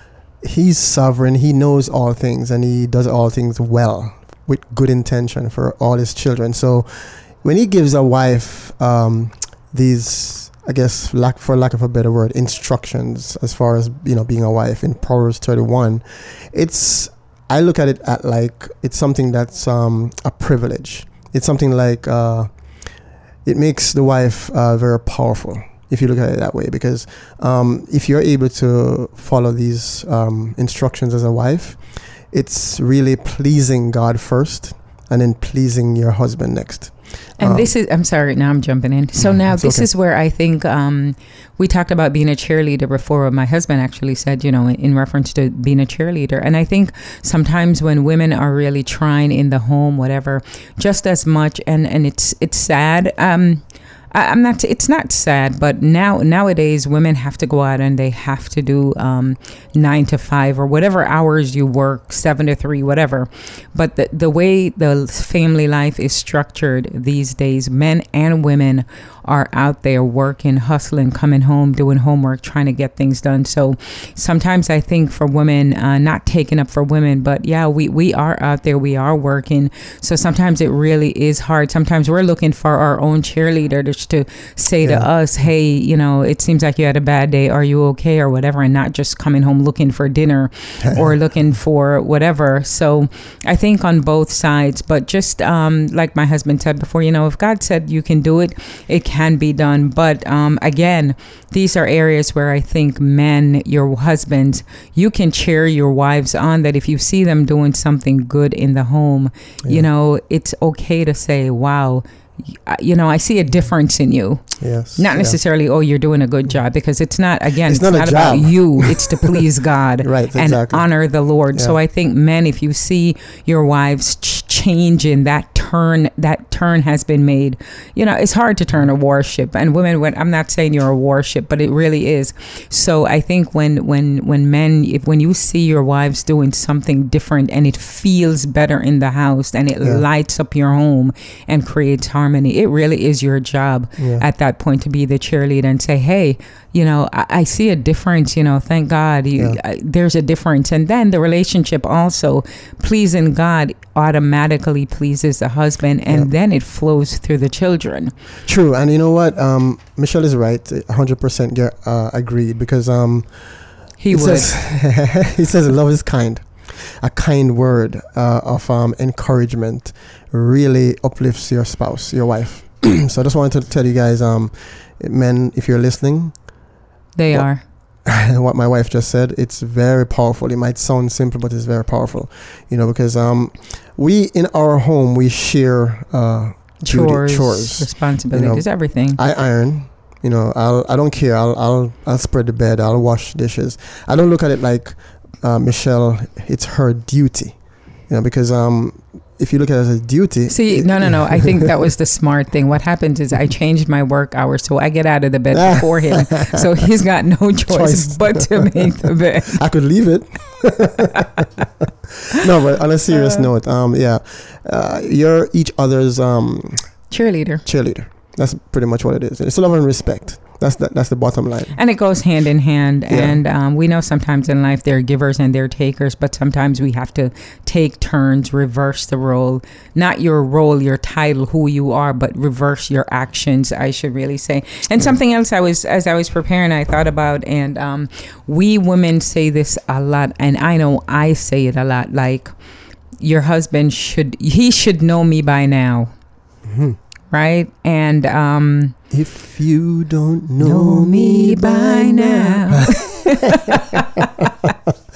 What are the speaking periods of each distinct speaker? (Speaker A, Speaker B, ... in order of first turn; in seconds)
Speaker A: 0.4-22.5, 23.4-37.7, 39.2-39.9, 84.8-85.1, 90.8-91.2, 114.6-115.4, 117.7-119.4, 120.0-120.9, 144.0-144.2, 158.4-176.5, 178.0-201.7, 205.5-206.7, 207.7-208.9, 209.5-211.4, 212.3-217.1, 217.6-221.8, 223.1-223.4, 246.7-247.0, 249.1-252.9
Speaker B: 37.4-158.1, 164.0-164.5, 177.1-177.6, 186.8-189.2, 200.5-209.6, 211.1-211.4, 217.1-217.6, 221.7-242.5, 243.2-246.1, 247.3-248.9, 250.6-254.7